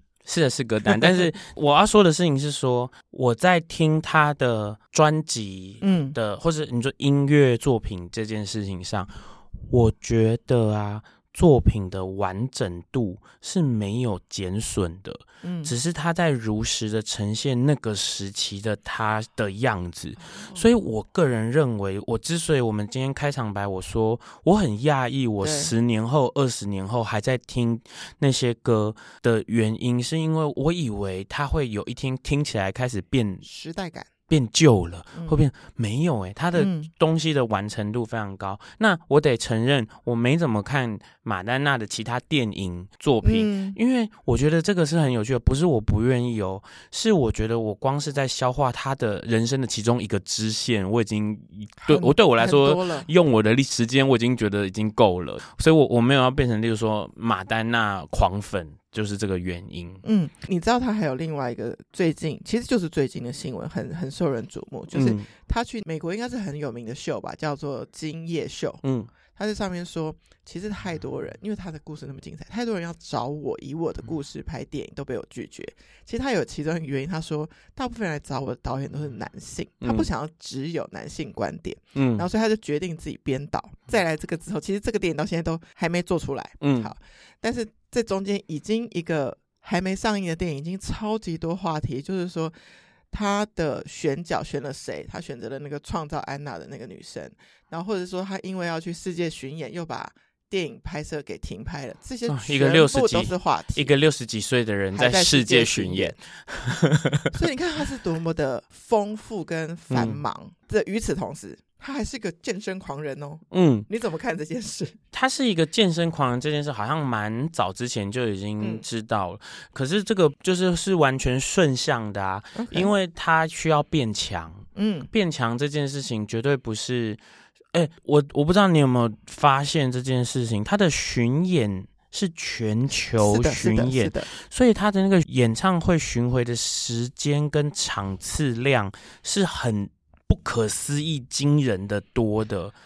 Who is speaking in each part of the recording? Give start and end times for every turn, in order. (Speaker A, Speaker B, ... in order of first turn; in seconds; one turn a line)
Speaker A: 0.2-9.1
Speaker B: 0.8-1.3
Speaker B: 5.8-6.2
Speaker A: 9.7-33.4
Speaker B: 15.4-15.7
Speaker B: 20.2-20.7
Speaker B: 25.4-25.7
Speaker B: 33.4-34.1
Speaker A: 34.3-60.0
Speaker B: 35.1-35.4
Speaker B: 36.5-36.9
Speaker B: 43.2-43.8
Speaker B: 51.8-53.1
Speaker B: 60.0-68.8
Speaker A: 64.9-65.2
Speaker A: 68.8-69.1
Speaker B: 69.3-92.5
Speaker A: 79.8-80.1
Speaker A: 81.9-82.2
Speaker A: 86.6-86.9
Speaker B: 93.1-103.9
Speaker A: 102.3-107.4
Speaker B: 104.9-106.2
Speaker B: 107.3-115.0
Speaker A: 109.9-110.2
Speaker A: 113.5-113.9
Speaker A: 115.1-127.2
Speaker B: 122.5-122.9
Speaker B: 124.7-125.1
Speaker A: 127.7-142.7
Speaker B: 133.2-134.3